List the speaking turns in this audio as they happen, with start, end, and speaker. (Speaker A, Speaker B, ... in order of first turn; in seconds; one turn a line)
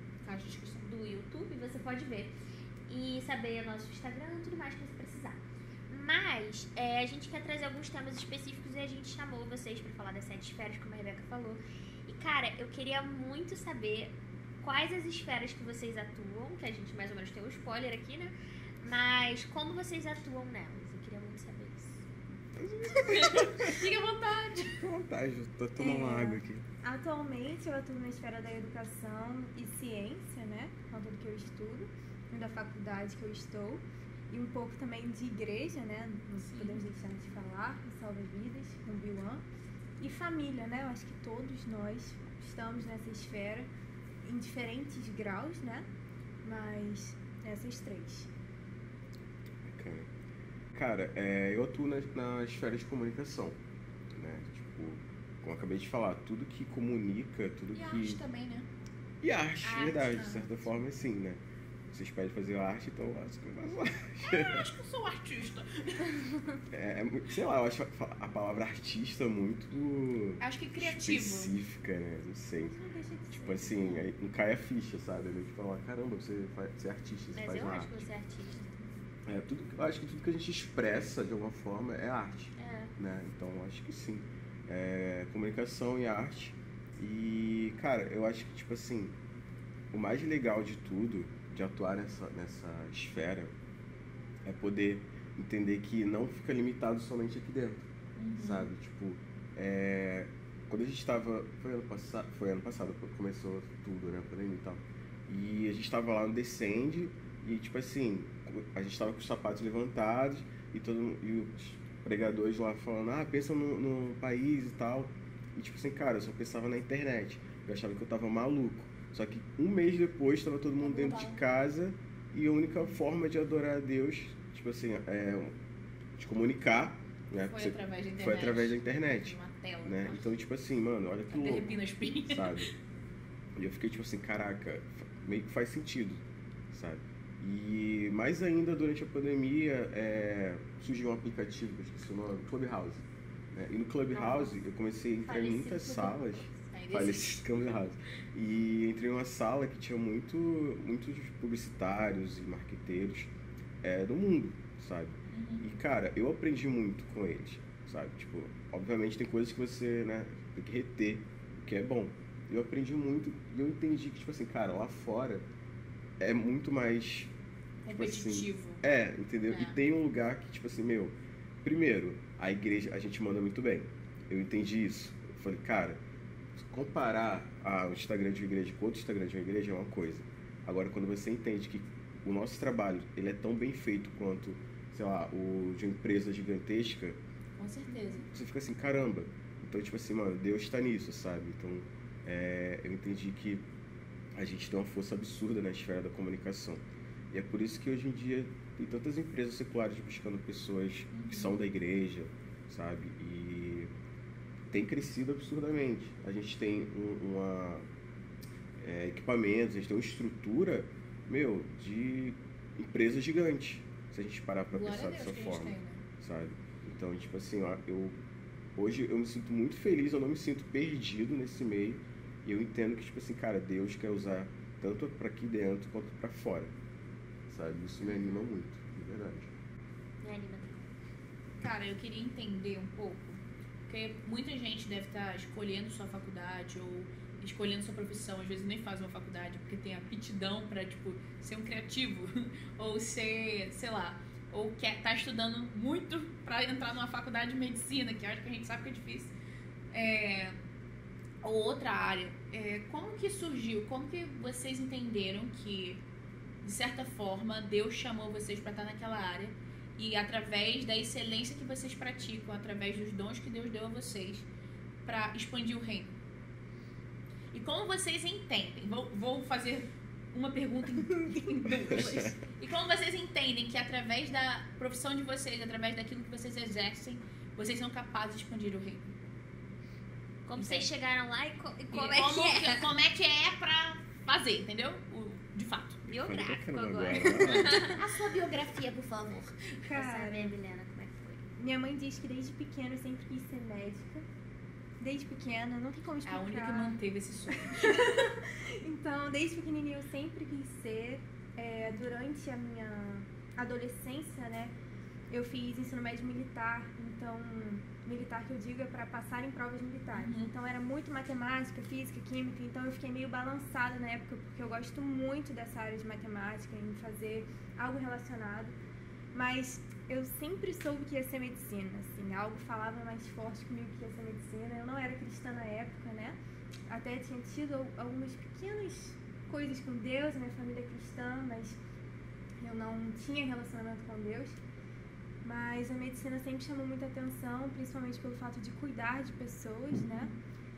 Speaker A: 0.2-0.8
Speaker B: 0.8-22.0
Speaker C: 22.6-23.7
Speaker A: 23.1-24.8
Speaker C: 24.6-26.6
Speaker D: 25.8-39.4
Speaker A: 36.4-36.8
Speaker D: 40.0-43.7
Speaker D: 44.2-45.9
Speaker D: 46.4-48.3
Speaker C: 49.6-50.1
Speaker C: 50.7-53.6
Speaker C: 54.1-58.2
Speaker A: 57.7-58.7
Speaker C: 59.2-64.7
Speaker B: 59.6-60.2
Speaker A: 60.2-60.5
Speaker A: 64.2-66.2
Speaker C: 66.7-72.8
Speaker A: 70.4-71.5
Speaker D: 72.7-74.1
Speaker C: 73.3-78.1
Speaker B: 77.3-78.7
Speaker C: 79.3-89.2
Speaker B: 82.6-82.9
Speaker C: 89.9-93.5
Speaker C: 94.4-97.8
Speaker A: 98.2-98.7
Speaker C: 98.4-125.5
Speaker A: 120.8-121.4
Speaker C: 126.2-132.7
Speaker A: 127.4-130.3
Speaker A: 131.3-132.7
Speaker C: 133.6-165.4
Speaker B: 144.1-144.6
Speaker B: 145.2-146.8
Speaker A: 146.7-147.7
Speaker A: 155.3-155.7
Speaker C: 166.2-167.3
Speaker A: 167.8-168.8
Speaker C: 167.9-176.0
Speaker A: 169.5-169.8
Speaker C: 176.6-187.2
Speaker A: 187.6-188.3
Speaker C: 188.3-193.7
Speaker C: 194.3-203.9
Speaker A: 201.1-201.6
Speaker C: 204.7-207.8
Speaker C: 208.8-218.2
Speaker A: 214.7-216.0
Speaker C: 218.8-226.7
Speaker C: 227.5-229.5
Speaker B: 230.2-230.9
Speaker A: 231.6-249.3
Speaker A: 249.9-250.6
Speaker A: 251.4-256.0
Speaker A: 256.6-264.5
Speaker A: 265.1-266.1
Speaker A: 267.5-279.1
Speaker D: 271.0-271.7
Speaker C: 271.9-272.3
Speaker B: 280.5-282.9
Speaker A: 280.6-280.9
Speaker A: 281.9-286.0
Speaker C: 286.1-288.0
Speaker B: 286.1-288.0
Speaker A: 287.9-289.8
Speaker D: 289.9-290.6
Speaker B: 289.9-291.4
Speaker D: 291.6-294.2
Speaker D: 295.0-297.0
Speaker A: 296.2-298.1
Speaker D: 297.6-304.7
Speaker D: 305.3-318.8
Speaker A: 310.2-310.5
Speaker D: 319.3-326.4
Speaker D: 326.9-331.8
Speaker D: 332.6-334.6
Speaker D: 335.4-340.3
Speaker A: 340.0-340.3